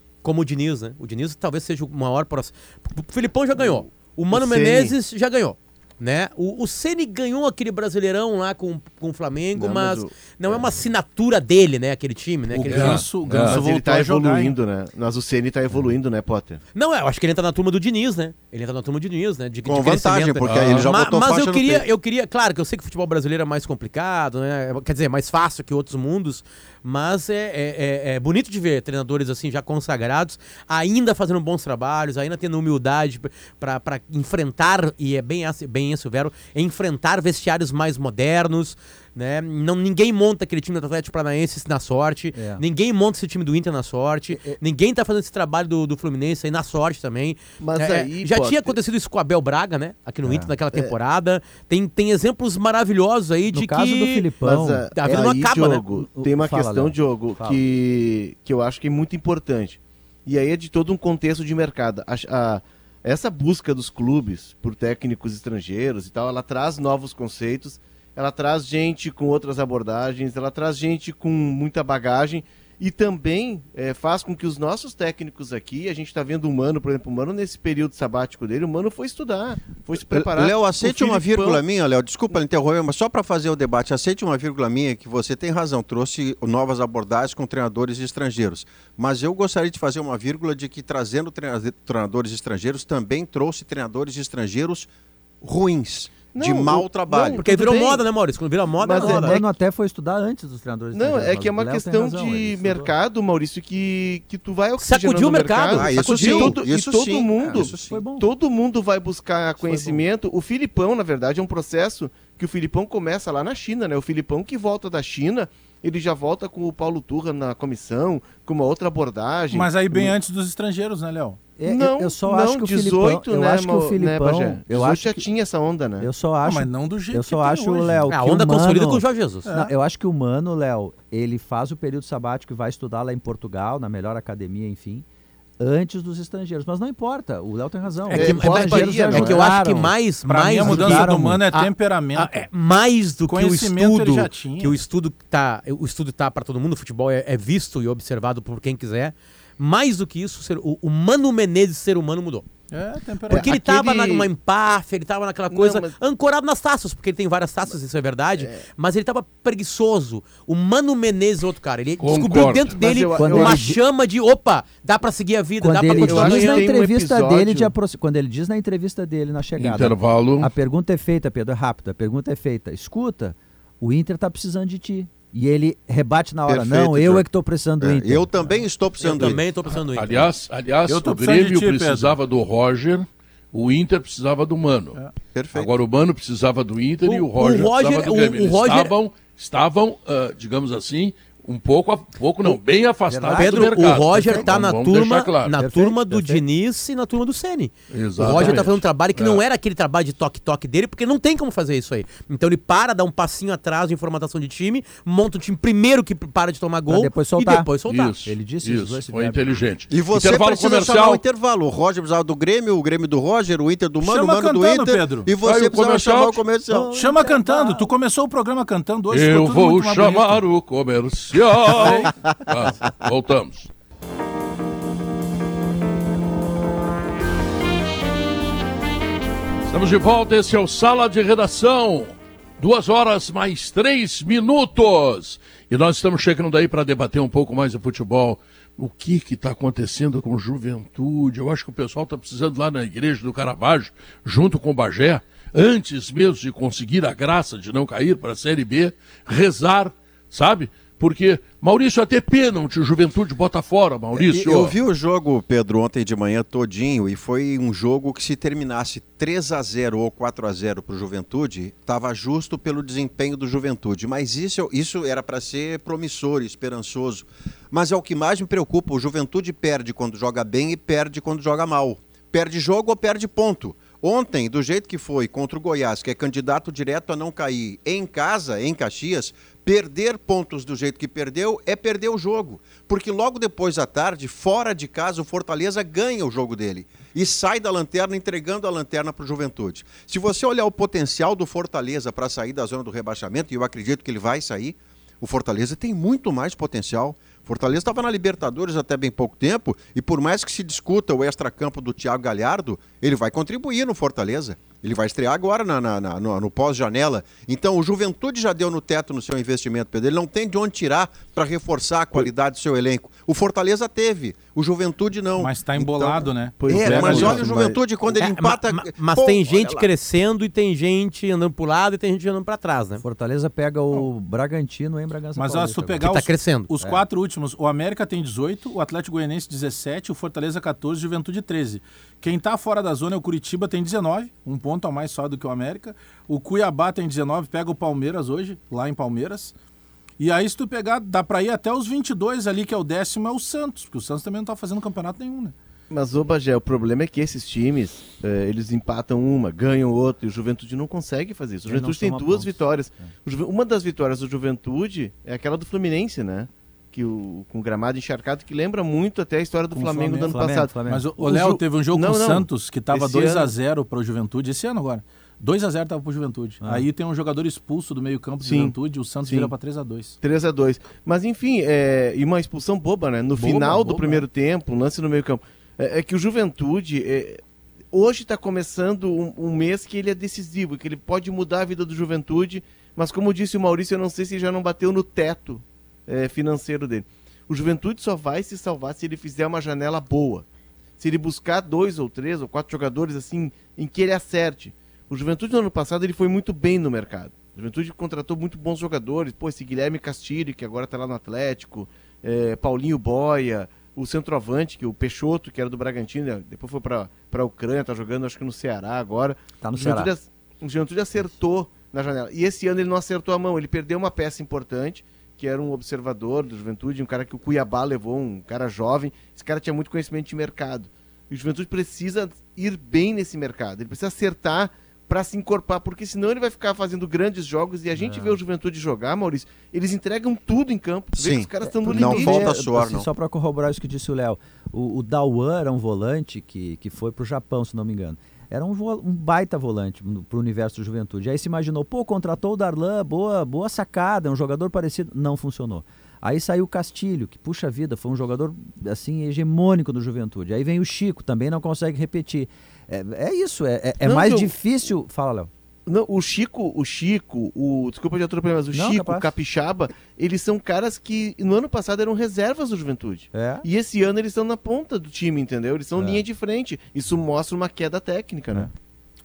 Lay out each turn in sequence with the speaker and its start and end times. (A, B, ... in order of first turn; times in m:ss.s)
0:00.2-0:13.0 A
0:03.6-0:04.9 B
0:09.5-0:10.8 B
0:12.5-0:14.6 C
0:12.7-0:13.6 D
0:13.5-0:16.6 B
0:16.7-0:54.3 A
0:19.6-0:21.8 E
0:20.4-0:20.9 D
0:42.3-0:42.6 F
0:44.3-0:44.6 F
0:47.6-0:48.7 B
0:50.2-0:50.5 F
0:53.5-0:55.3 F
0:54.4-1:21.6 B
0:54.9-0:55.8 A
0:55.9-0:57.6 F
1:20.1-1:34.9 E
1:35.4-1:37.4 E
1:36.3-1:38.0 B
1:37.4-1:39.4 A
1:38.8-1:39.5 B
1:38.9-1:42.9 F
1:40.9-2:00.2 B
1:44.8-1:46.6 A
1:45.7-1:48.0 E
1:47.5-1:48.3 F
1:49.6-1:50.0 F
1:59.5-2:01.4 C
2:01.6-2:05.2 F
2:01.6-2:06.1 B
2:06.0-2:15.0 F
2:06.4-2:08.0 C
2:08.1-2:09.5 A
2:09.4-2:09.7 C
2:15.6-2:21.5 F
2:18.1-2:32.5 A
2:18.1-2:19.5 B
2:20.2-2:22.4 C
2:23.3-2:24.8 C
2:32.7-2:33.5 C
2:33.3-2:34.3 B
2:33.3-2:46.7 A
2:35.5-2:35.9 B
2:42.0-2:42.8 D
2:42.7-2:43.7 B
2:43.1-2:43.8 F
2:45.6-2:58.3 F
2:45.9-2:47.7 B
2:49.6-2:50.5 D
2:56.5-2:57.2 E
2:57.8-2:59.4 E
2:59.0-3:00.3 A
2:59.9-3:05.0 D
3:00.9-3:02.2 C
3:05.3-3:05.7 E
3:05.5-3:15.5 D
3:07.0-3:08.9 A
3:13.1-3:13.8 F
3:13.4-3:28.1 A
3:15.6-3:16.4 F
3:17.9-3:19.4 D
3:26.9-3:29.5 F
3:27.9-3:31.2 D
3:29.9-3:36.9 E
3:34.0-3:35.3 C
3:35.4-3:36.4 D
3:36.7-3:37.9 F
3:36.9-3:40.4 C
3:39.1-3:43.7 D
3:41.8-3:42.1 C
3:42.1-3:42.5 E
3:49.7-4:14.8 D
4:14.1-5:16.2 E
5:15.4-5:17.4 C
5:16.6-5:17.8 B
5:16.6-5:17.4 F
5:16.8-5:19.9 E
5:18.2-5:23.0 A
5:23.0-5:26.1 F
5:25.3-5:39.5 C
5:26.0-5:26.7 A
5:26.8-5:27.0 F
5:40.2-5:45.5 C
5:45.9-6:03.5 B
5:51.6-5:53.1 F
5:59.7-6:01.1 F
6:00.8-6:10.2 C
6:06.6-6:06.9 F
6:08.4-6:09.5 B
6:10.2-6:17.4 B
6:13.4-6:14.2 C
6:17.9-6:30.4 B
6:31.0-7:12.6 B
6:49.6-6:50.1 F
7:07.9-7:08.4 F
7:11.2-7:13.1 E
7:11.6-7:35.5 F
7:34.0-7:34.5 B
7:35.9-7:48.7 B
7:38.7-7:39.3 F
7:43.3-7:43.6 F
7:46.0-7:46.2 F